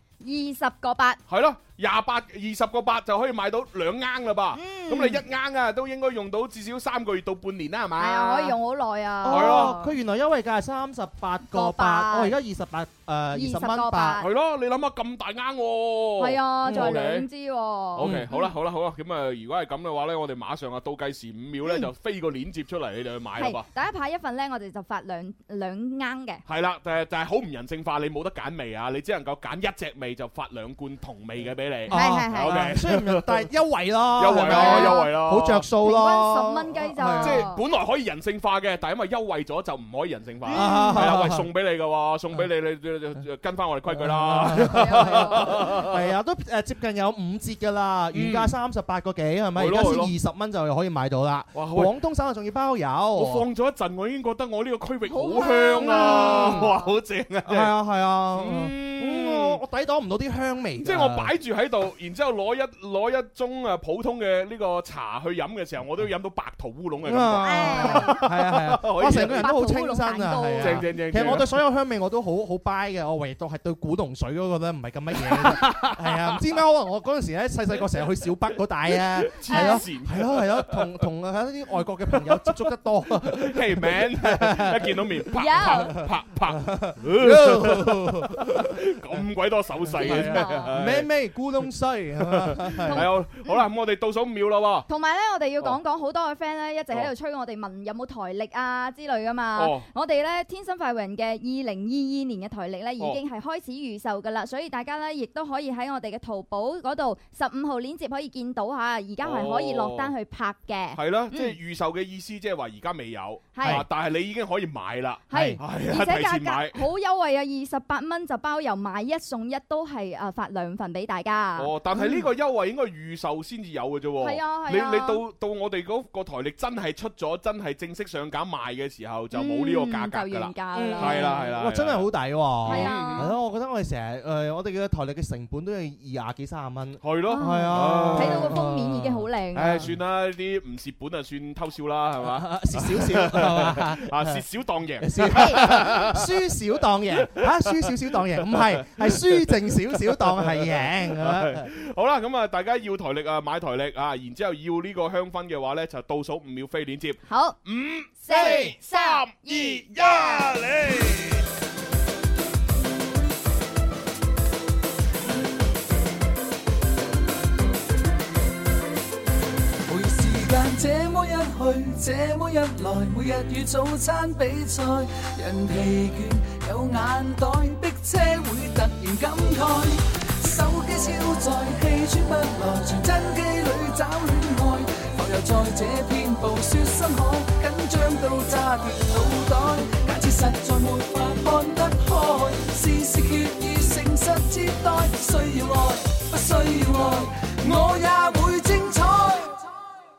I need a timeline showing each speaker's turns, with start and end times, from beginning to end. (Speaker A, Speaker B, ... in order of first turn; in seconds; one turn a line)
Speaker A: 0.2-1.2
Speaker B: 1.3-8.6
Speaker A: 4.5-5.2
Speaker A: 8.0-9.9
Speaker C: 9.2-14.2
Speaker B: 9.2-9.8
Speaker A: 11.5-12.3
Speaker A: 13.3-14.3
Speaker B: 14.2-17.3
Speaker A: 16.2-18.5
Speaker B: 17.9-23.6
Speaker C: 18.0-18.3
Speaker A: 23.4-26.4
Speaker B: 26.4-33.5
Speaker C: 31.9-37.5
Speaker A: 31.9-32.7
Speaker B: 34.2-35.7
Speaker A: 34.4-35.1
Speaker A: 35.8-37.6
Speaker B: 37.1-46.0
Speaker A: 40.4-41.1
Speaker C: 40.5-41.5
Speaker C: 43.9-53.5
Speaker A: 44.5-45.6
Speaker B: 48.1-48.5
Speaker B: 49.5-50.1
Speaker B: 51.5-51.9
Speaker B: 53.1-57.7
Speaker A: 55.1-56.9
Speaker C: 55.8-56.7
Speaker C: 57.5-61.3
Speaker B: 58.3-59.6
Speaker B: 60.8-69.5
Speaker C: 67.0-85.7
Speaker A: 67.4-68.2
Speaker A: 69.0-70.9
Speaker B: 70.6-71.5
Speaker B: 75.2-76.4
Speaker B: 78.9-80.8
Speaker A: 79.5-79.8
Speaker B: 82.1-82.7
Speaker B: 83.2-91.1
Speaker A: 85.4-86.0
Speaker C: 86.5-88.7
Speaker C: 89.9-93.1
Speaker A: 90.0-90.7
Speaker B: 92.2-94.9
Speaker A: 92.9-93.6
Speaker A: 94.9-111.6
Speaker B: 99.5-99.8
Speaker B: 109.2-110.1
Speaker B: 110.9-116.8
Speaker A: 113.5-113.8
Speaker A: 115.3-121.7
Speaker C: 115.3-115.6
Speaker B: 121.5-132.1
Speaker C: 121.9-122.3
Speaker A: 124.2-125.2
Speaker A: 129.3-131.5
Speaker C: 130.7-140.0
Speaker B: 132.6-133.3
Speaker A: 132.7-133.3
Speaker B: 137.0-138.5
Speaker A: 137.3-139.9
Speaker B: 139.5-146.2
Speaker C: 142.2-144.4
Speaker C: 145.0-151.7
Speaker A: 145.3-145.6
Speaker B: 147.2-161.4
Speaker A: 157.3-157.6
Speaker A: 158.2-160.5
Speaker C: 158.3-158.6
Speaker D: 169.9-199.6